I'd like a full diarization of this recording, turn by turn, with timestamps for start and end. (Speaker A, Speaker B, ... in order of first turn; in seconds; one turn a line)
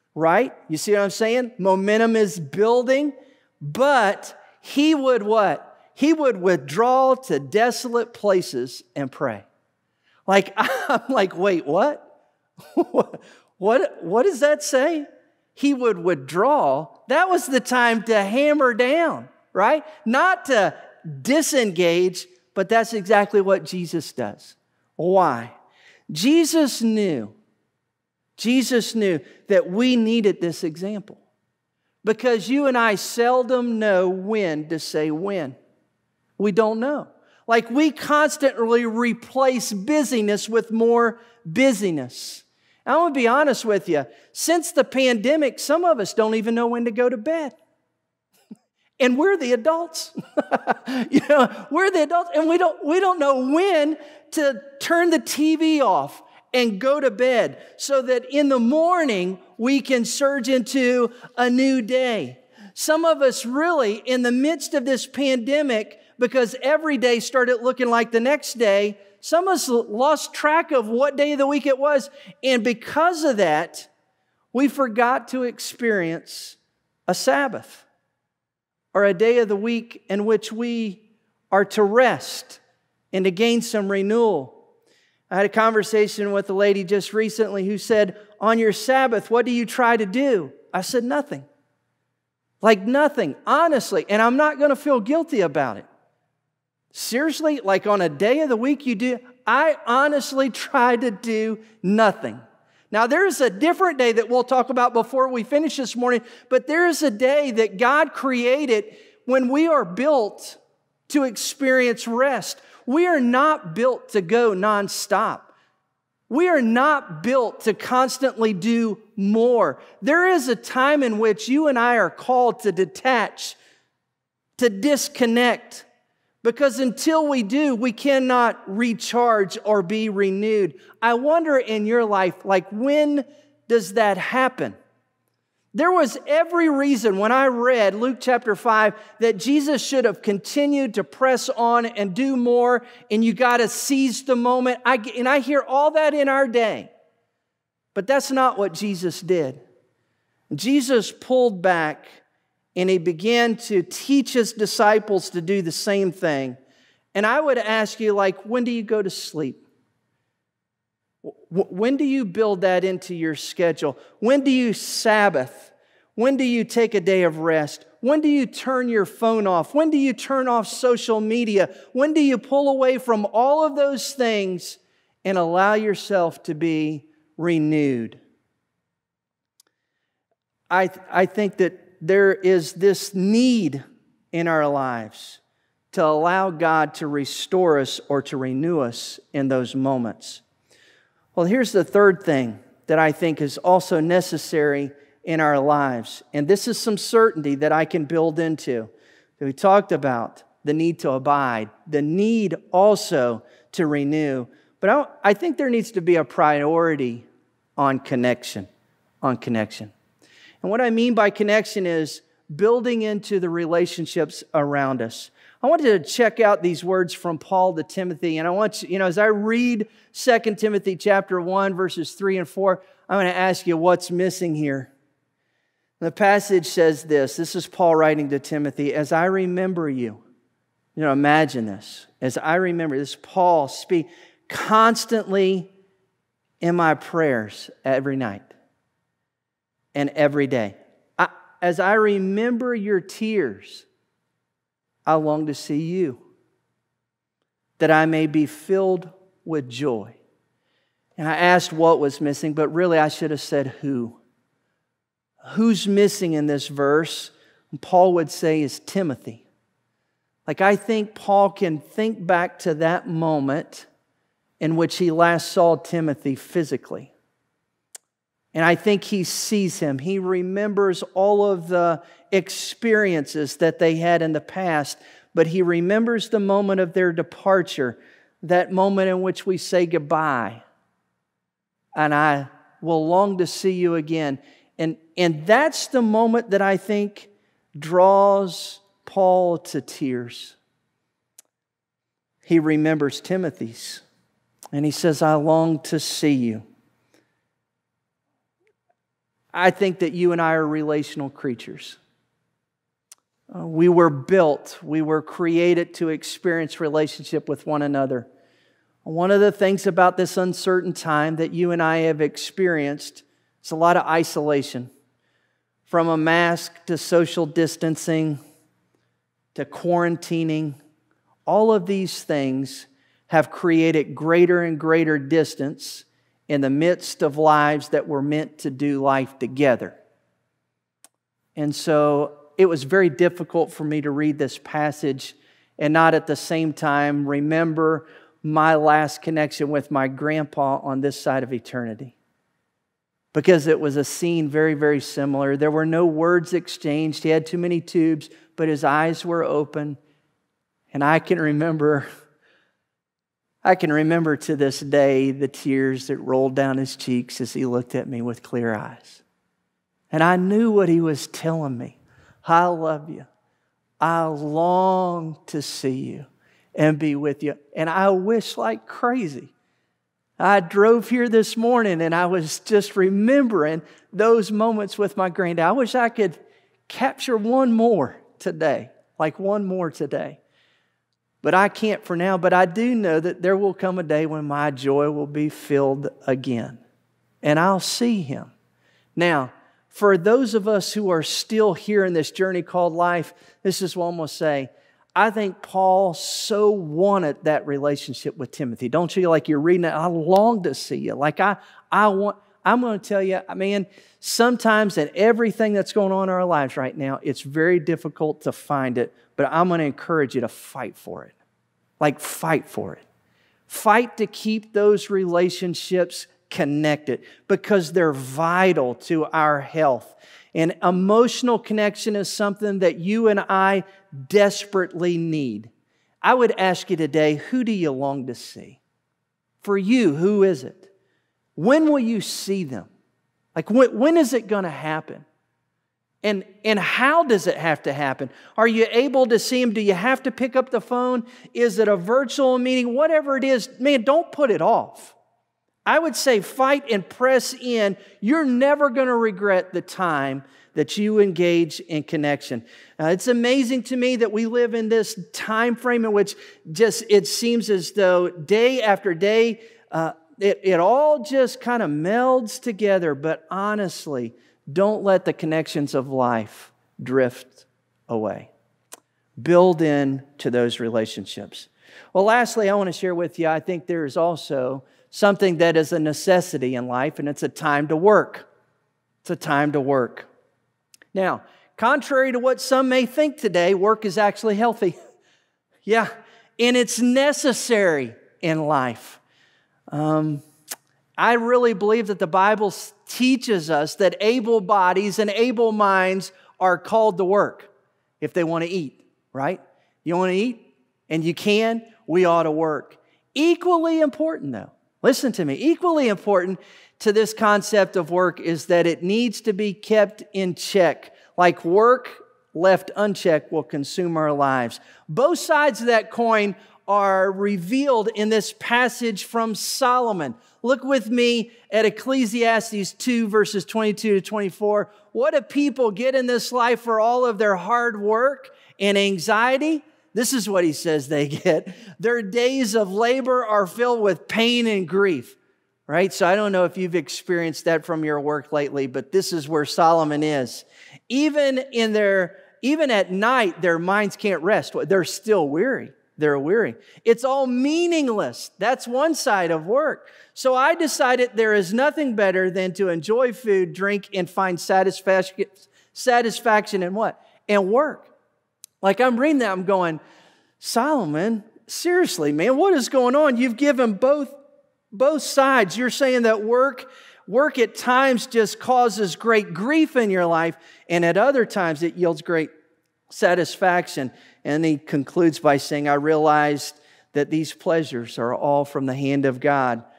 Speaker A: 0.1-9.4
Speaker A: 10.3-12.1
Speaker A: 12.7-25.6
Speaker A: 26.1-27.3
Speaker A: 28.4-31.2
Speaker A: 32.0-35.6
Speaker A: 36.4-47.6
Speaker A: 49.0-73.9
Speaker A: 74.5-77.8
Speaker A: 78.9-82.6
Speaker A: 83.1-84.6
Speaker A: 85.3-91.5
Speaker A: 92.6-95.9
Speaker A: 96.9-115.5
Speaker A: 116.3-123.6
Speaker A: 124.6-125.9
Speaker A: 126.4-134.8
Speaker A: 135.7-146.9
Speaker A: 147.9-149.6
Speaker A: 150.5-152.2
Speaker A: 152.8-156.6
Speaker A: 157.1-159.6
Speaker A: 161.2-178.2
Speaker A: 180.7-185.4
Speaker A: 185.9-190.4
Speaker A: 191.3-208.7
Speaker A: 209.2-209.9
Speaker A: 210.6-224.9
Speaker A: 226.0-230.2
Speaker A: 230.9-235.7
Speaker A: 236.6-238.5
Speaker A: 239.9-243.9
Speaker A: 245.1-246.2
Speaker A: 247.8-250.2
Speaker A: 251.2-254.2
Speaker A: 255.4-259.4
Speaker A: 260.5-263.9
Speaker A: 264.6-267.1
Speaker A: 268.5-280.6
Speaker A: 282.0-290.6
Speaker A: 292.4-294.0
Speaker A: 294.7-296.6
Speaker A: 299.5-302.0
Speaker A: 303.5-308.3
Speaker A: 309.0-314.9
Speaker A: 315.9-318.4
Speaker A: 319.6-320.8
Speaker A: 321.5-330.0
Speaker A: 331.6-342.1
Speaker A: 343.3-350.0
Speaker A: 350.9-352.1
Speaker A: 353.6-359.2
Speaker A: 360.1-363.3
Speaker A: 364.0-369.5
Speaker A: 370.4-380.4
Speaker A: 381.4-386.8
Speaker A: 387.4-388.5
Speaker A: 389.2-411.3
Speaker A: 412.0-413.0
Speaker A: 413.7-425.7
Speaker A: 426.2-428.8
Speaker A: 429.6-430.9
Speaker A: 431.6-432.9
Speaker A: 433.6-435.2
Speaker A: 436.2-445.1
Speaker A: 445.9-468.5
Speaker A: 469.4-478.5
Speaker A: 479.2-480.3
Speaker A: 481.1-485.0
Speaker A: 485.9-489.2
Speaker A: 489.9-490.4
Speaker A: 491.2-497.7
Speaker A: 498.2-535.4
Speaker A: 535.9-558.1
Speaker A: 558.8-560.0
Speaker A: 560.6-564.4
Speaker A: 564.9-572.5
Speaker A: 573.1-579.8